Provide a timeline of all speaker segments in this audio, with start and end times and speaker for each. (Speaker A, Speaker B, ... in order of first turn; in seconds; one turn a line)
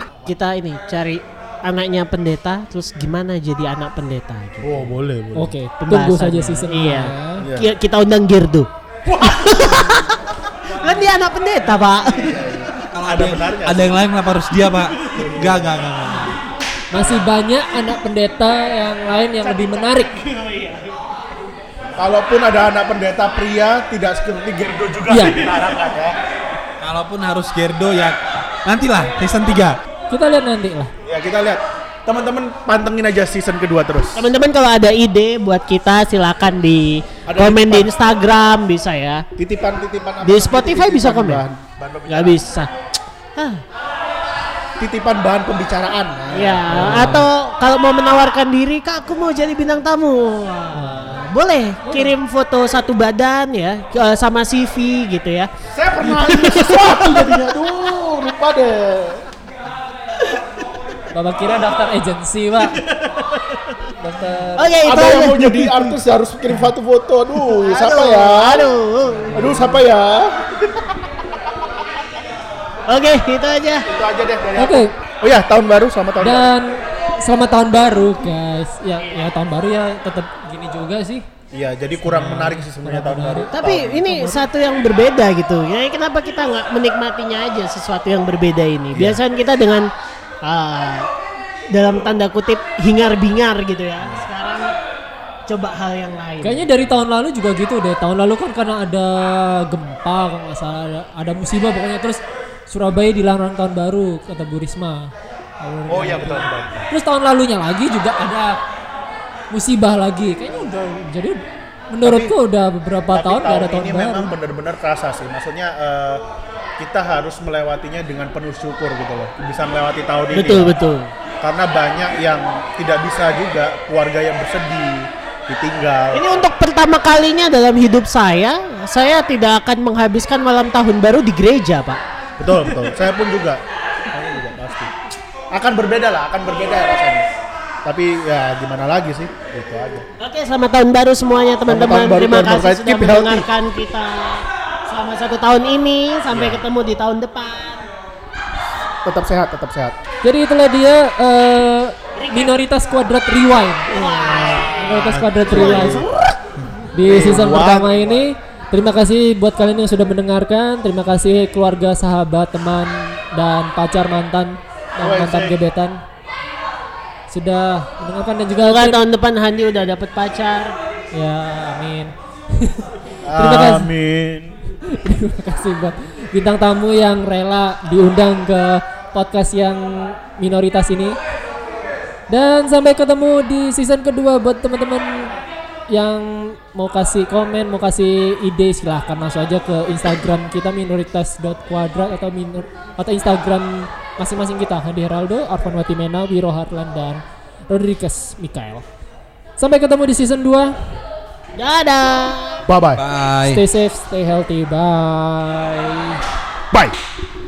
Speaker A: 0.2-4.9
Speaker B: 4.6-5.5
Speaker C: 5.3-7.5
Speaker A: 5.8-12.5
Speaker B: 7.4-7.7
Speaker B: 9.1-10.1
Speaker B: 12.1-14.0
Speaker D: 12.9-16.4
Speaker B: 15.1-15.7
Speaker C: 16.9-20.1
Speaker B: 16.9-17.2
Speaker A: 19.4-21.0
Speaker B: 22.0-26.2
Speaker C: 25.1-25.4
Speaker D: 26.8-29.8
Speaker C: 30.1-30.9
Speaker B: 31.0-34.3
Speaker A: 34.1-39.2
Speaker B: 37.2-37.9
Speaker B: 39.4-42.4
Speaker A: 40.2-41.4
Speaker A: 42.1-42.8
Speaker A: 43.3-43.6
Speaker B: 44.8-47.2
Speaker A: 46.3-55.5
Speaker C: 46.7-47.3
Speaker C: 50.7-51.1
Speaker C: 51.8-52.1
Speaker B: 55.7-59.2
Speaker A: 56.0-57.9
Speaker C: 61.1-62.8
Speaker A: 62.7-63.8
Speaker C: 64.0-64.8
Speaker A: 64.6-65.9
Speaker B: 64.8-68.8
Speaker A: 67.4-69.8
Speaker C: 69.1-69.6
Speaker B: 69.3-71.2
Speaker A: 72.9-73.9
Speaker B: 73.9-76.5
Speaker C: 74.5-74.9
Speaker C: 76.2-81.2
Speaker B: 81.5-84.2
Speaker C: 82.0-83.5
Speaker A: 83.5-89.9
Speaker C: 84.1-84.4
Speaker B: 88.9-89.2
Speaker A: 90.4-91.1
Speaker A: 91.7-94.8
Speaker A: 95.5-96.8
Speaker C: 96.4-108.6
Speaker B: 105.9-106.9
Speaker C: 109.5-114.3
Speaker B: 112.0-112.3
Speaker B: 113.1-116.2
Speaker B: 116.8-120.8
Speaker A: 120.3-121.1
Speaker B: 121.4-126.5
Speaker A: 126.1-132.0
Speaker B: 132.4-134.9
Speaker B: 135.5-137.2
Speaker B: 137.8-140.1
Speaker A: 140.2-147.9
Speaker B: 141.7-143.5
Speaker B: 146.3-146.6
Speaker B: 149.0-149.9
Speaker C: 150.2-156.1
Speaker A: 152.2-152.5
Speaker A: 153.9-156.3
Speaker B: 154.4-156.1
Speaker C: 156.9-166.0
Speaker B: 157.0-158.3
Speaker B: 165.0-165.6
Speaker C: 167.3-169.0
Speaker A: 168.6-170.8
Speaker C: 171.1-173.9
Speaker B: 173.2-174.6
Speaker C: 174.9-181.2
Speaker C: 182.3-185.3
Speaker C: 185.9-198.8
Speaker C: 199.6-200.8
Speaker A: 201.6-202.6
Speaker B: 202.7-203.0
Speaker D: 203.0-203.6
Speaker C: 203.5-206.2